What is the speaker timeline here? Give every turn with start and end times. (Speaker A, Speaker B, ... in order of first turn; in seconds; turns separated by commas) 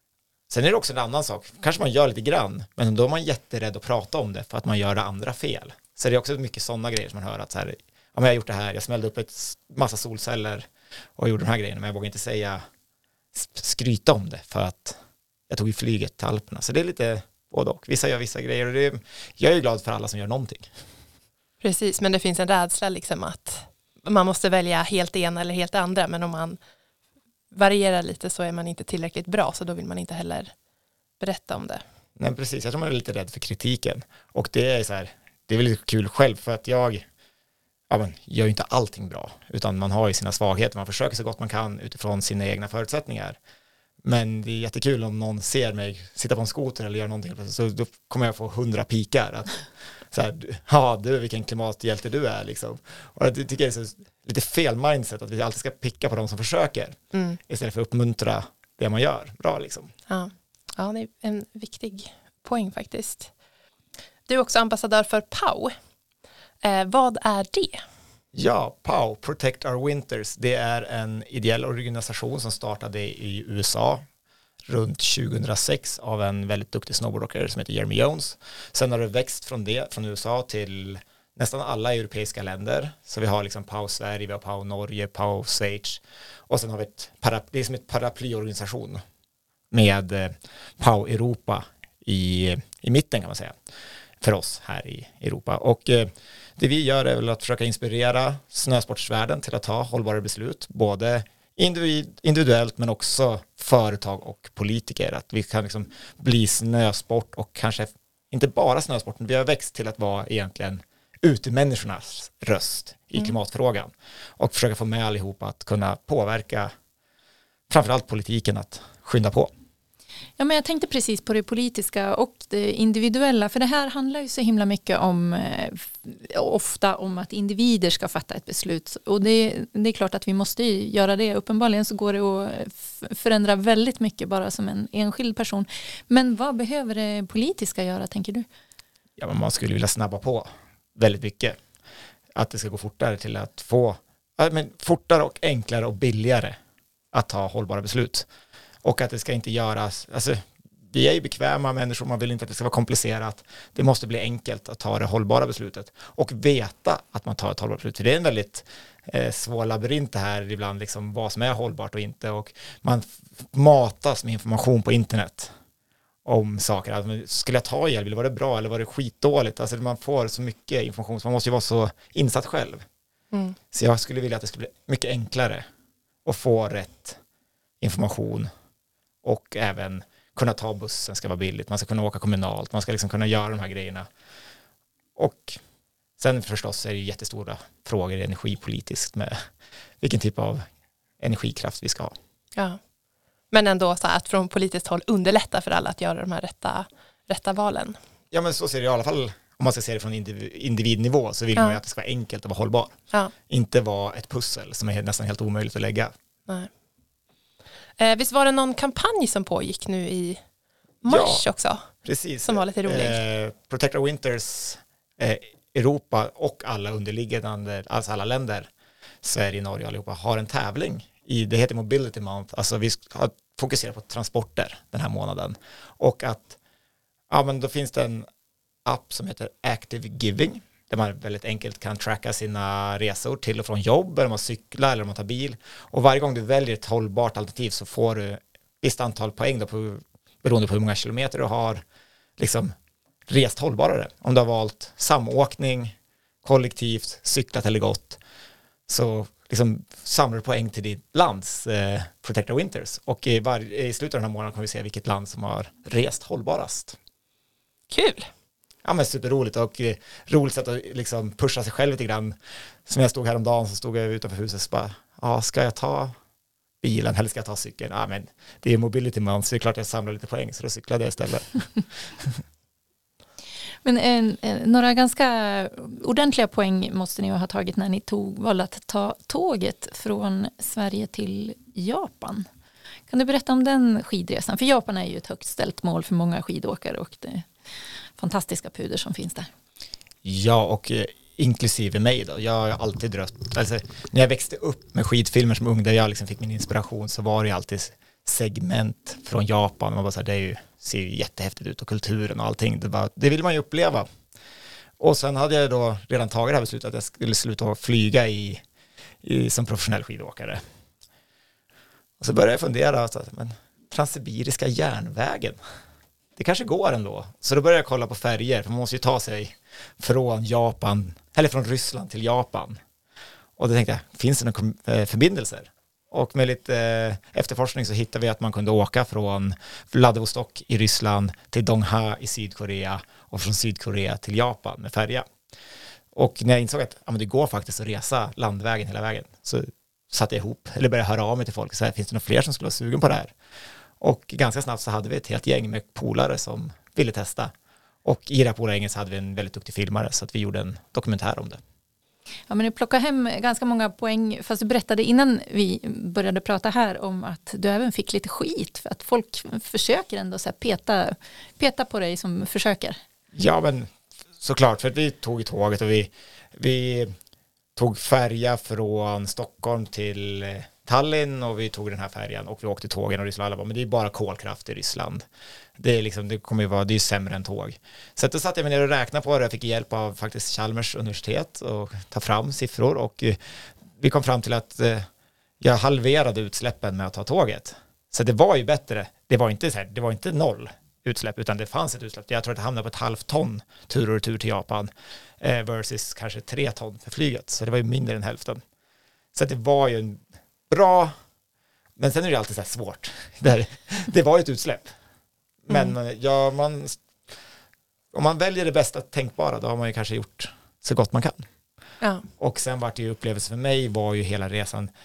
Speaker A: 0.5-12.6, Speaker A: 13.3-15.0, Speaker A: 15.5-20.7, Speaker B: 21.6-26.6, Speaker B: 27.5-30.5, Speaker B: 31.2-31.8, Speaker A: 32.2-37.0, Speaker A: 37.9-43.4, Speaker A: 44.0-59.9, Speaker B: 57.1-57.4, Speaker B: 60.1-63.3, Speaker B: 64.3-65.7, Speaker B: 66.6-67.8, Speaker A: 68.3-74.0, Speaker A: 74.7-89.0, Speaker A: 89.7-93.5, Speaker A: 94.2-116.7, Speaker A: 117.7-119.5, Speaker C: 120.4-138.5, Speaker A: 139.2-141.6, Speaker A: 142.3-146.6, Speaker A: 147.1-148.3, Speaker A: 148.8-165.5, Speaker A: 166.2-172.8, Speaker B: 173.3-173.6, Speaker A: 173.7-175.6, Speaker A: 176.2-177.2, Speaker A: 177.8-178.5, Speaker A: 179.2-184.1, Speaker A: 185.2-185.6, Speaker A: 186.2-189.4, Speaker A: 190.0-190.7, Speaker A: 191.2-192.1, Speaker B: 192.5-192.8, Speaker B: 193.5-198.0, Speaker A: 198.3-202.9, Speaker A: 203.5-206.1, Speaker B: 208.0-210.4, Speaker B: 211.0-211.8, Speaker A: 211.0-211.4, Speaker A: 212.0-218.7, Speaker B: 212.4-213.2, Speaker A: 219.2-226.6, Speaker A: 227.3-228.2, Speaker A: 228.8-241.8, Speaker A: 242.4-242.7, Speaker A: 243.3-248.2, Speaker A: 248.9-257.0, Speaker B: 257.9-258.3, Speaker A: 258.8-262.3, Speaker A: 262.9-266.1, Speaker A: 266.8-272.4, Speaker C: 273.8-282.4, Speaker C: 283.1-287.5, Speaker C: 288.2-289.5, Speaker A: 290.2-304.1, Speaker A: 305.0-308.6, Speaker A: 309.2-310.6, Speaker A: 312.2-315.6, Speaker A: 316.4-322.8, Speaker A: 323.6-335.2, Speaker A: 336.1-343.3, Speaker A: 344.0-347.5, Speaker A: 348.0-351.6, Speaker C: 352.5-363.0, Speaker A: 363.3-367.1, Speaker A: 367.8-375.2, Speaker A: 375.8-383.4, Speaker A: 383.9-385.1, Speaker A: 385.6-398.6, Speaker A: 399.3-401.1, Speaker A: 402.0-404.9, Speaker A: 405.6-407.1, Speaker B: 405.7-405.9, Speaker A: 408.1-411.4, Speaker B: 412.0-412.3, Speaker A: 412.4-414.9